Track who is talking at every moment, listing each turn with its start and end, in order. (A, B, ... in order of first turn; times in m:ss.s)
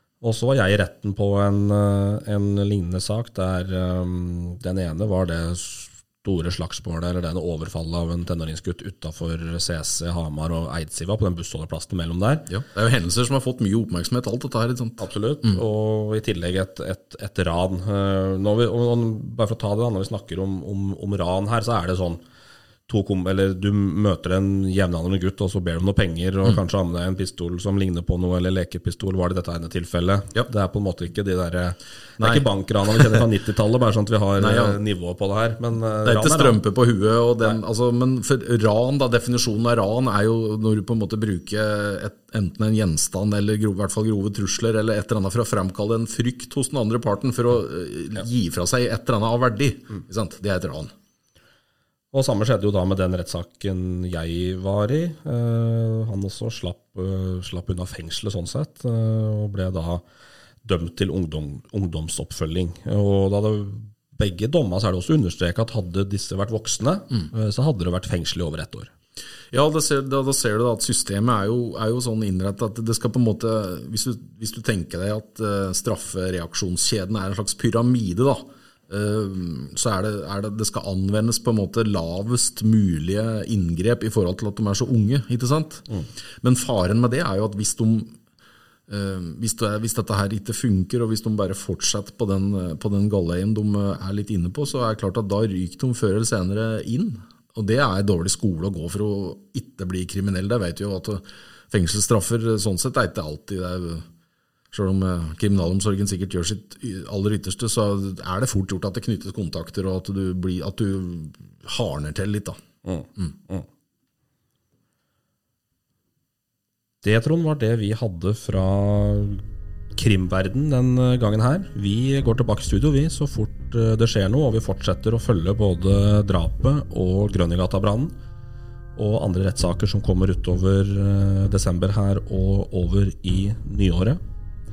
0:00.2-0:12.5 A
0:12.5-0:15.6 B
0:15.0-0:22.2 A
0:22.9-0:36.6 A
0:32.2-0:33.2 B
0:34.4-0:34.8 B
0:36.0-0:50.9 B
0:52.1-1:00.0 A
1:00.6-1:08.9 A
1:09.5-1:28.2 B
1:28.9-1:44.1 B
1:44.7-1:52.6 B
1:52.8-1:53.7 A
1:57.0-1:59.4 A
2:00.0-2:08.2 A
2:09.0-2:14.2 A